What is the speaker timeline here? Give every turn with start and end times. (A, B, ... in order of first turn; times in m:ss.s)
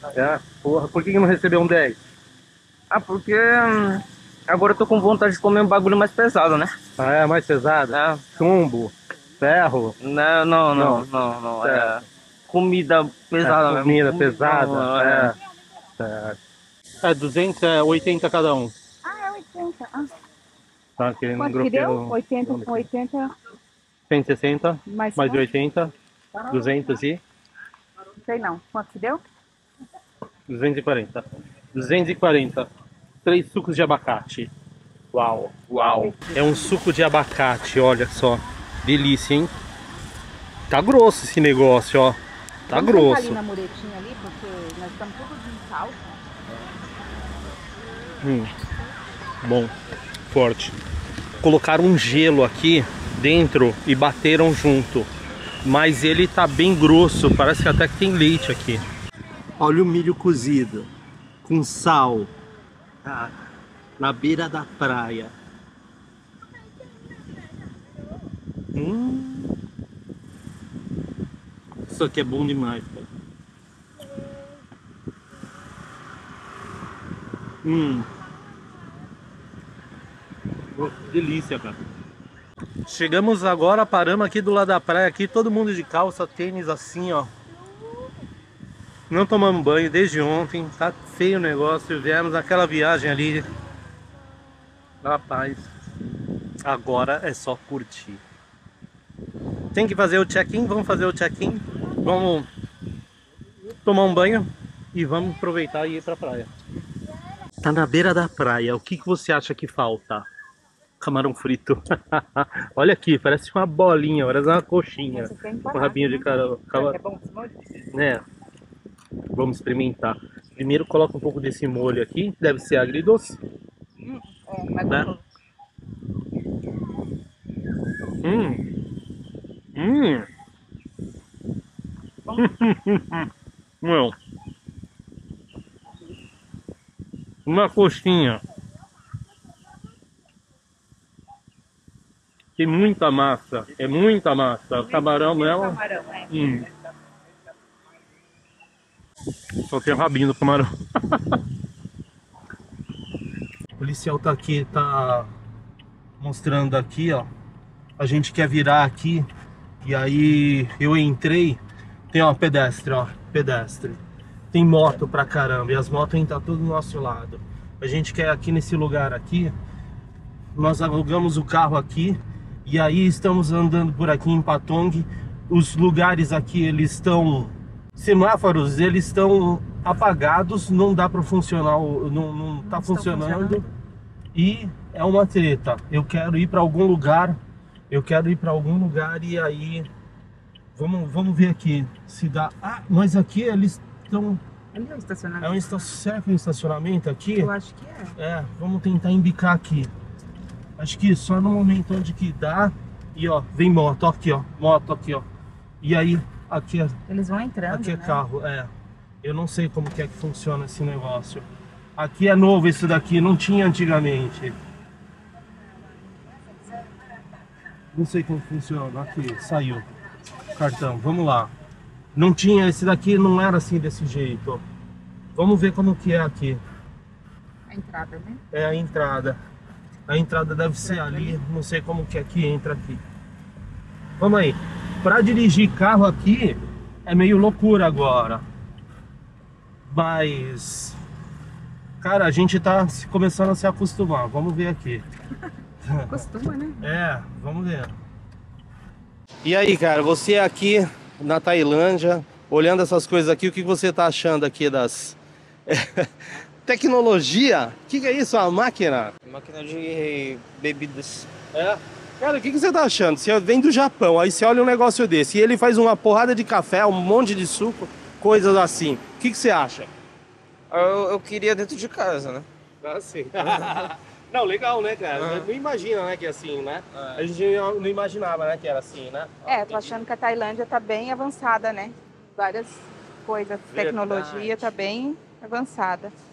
0:00.1-0:02.0 A
0:02.9-0:06.7 B
0:07.0-0:10.0 A
0:07.9-0:08.2 B
0:10.0-0:15.3 B
0:10.7-0:11.1 A
0:11.6-0:12.0 A
0:13.4-0:15.4 A
0:16.0-0:16.4 A
0:17.0-0:18.7 A
0:19.0-0:20.1 C
0:21.0-0:22.9 A
0:21.4-0:23.3 C
0:24.1-0:25.9 A
0:24.9-0:25.5 C
0:26.4-0:27.0 C
0:26.5-0:27.2 A
0:28.3-0:29.2 C
0:30.5-0:32.7 A
0:33.2-0:34.5 A
0:35.1-0:39.5 A
0:35.7-0:36.1 B
0:36.0-0:36.7 C
0:40.7-0:42.2 A
0:42.7-0:43.4 A
0:42.7-0:46.2 C
0:48.2-0:48.5 A
0:49.4-0:49.7 A
0:50.3-0:50.8 A
0:51.4-0:55.1 A
0:55.6-0:58.8 A
0:59.6-1:00.9 A
1:01.4-1:02.3 A
1:03.0-1:03.3 A
1:04.0-1:05.3 A
1:08.7-1:09.6 A
1:11.9-1:13.1 A
1:17.6-1:18.1 A
1:20.7-1:21.8 A
1:22.9-1:27.3 A
1:29.1-1:33.5 A
1:35.0-1:35.7 A
1:36.6-1:38.2 A
1:39.7-1:42.5 A
1:43.8-1:46.5 A
1:47.6-1:50.3 A
1:51.0-1:57.0 A
1:55.1-1:57.6 C
1:57.9-1:58.2 A
1:59.3-2:03.4 A
2:04.0-2:05.2 C
2:08.2-2:08.6 A
2:09.8-2:10.3 A
2:12.4-2:13.3 A
2:13.8-2:14.2 A
2:17.5-2:18.4 A
2:22.6-2:26.7 A
2:24.8-2:26.4 C
2:29.6-2:31.4 A
2:33.8-2:35.3 A
2:36.2-2:37.3 A
2:38.0-2:39.3 A
2:39.8-2:41.6 A
2:42.1-2:44.0 A
2:44.5-2:49.5 A
2:50.6-3:03.7 A
3:02.6-3:03.7 C
3:04.3-3:07.4 A
3:07.9-3:09.9 A
3:10.8-3:14.4 A
3:14.7-3:15.8 C
3:15.4-3:17.5 A
3:17.4-3:18.2 C
3:18.2-3:19.9 A
3:20.8-3:25.3 A
3:25.8-3:27.0 A
3:27.1-3:28.2 C
3:27.7-3:28.7 A
3:29.2-3:31.5 A
3:32.0-3:34.6 A
3:37.9-3:39.9 A
3:40.5-3:41.5 A
3:42.2-3:44.6 A
3:45.4-3:46.6 A
3:47.7-3:48.4 C
3:48.5-3:49.4 A
3:50.1-3:53.0 A
3:50.8-3:51.4 C
3:54.2-3:58.4 A
3:59.9-4:01.0 A
4:02.0-4:05.0 A
4:05.8-4:06.2 A
4:06.1-4:07.0 C
4:06.8-4:08.0 A
4:09.4-4:16.1 A
4:16.7-4:19.1 A
4:19.3-4:21.3 B
4:21.5-4:29.9 A
4:30.7-4:32.5 B
4:32.8-4:40.0 A
4:39.5-4:46.1 C
4:43.7-4:44.7 A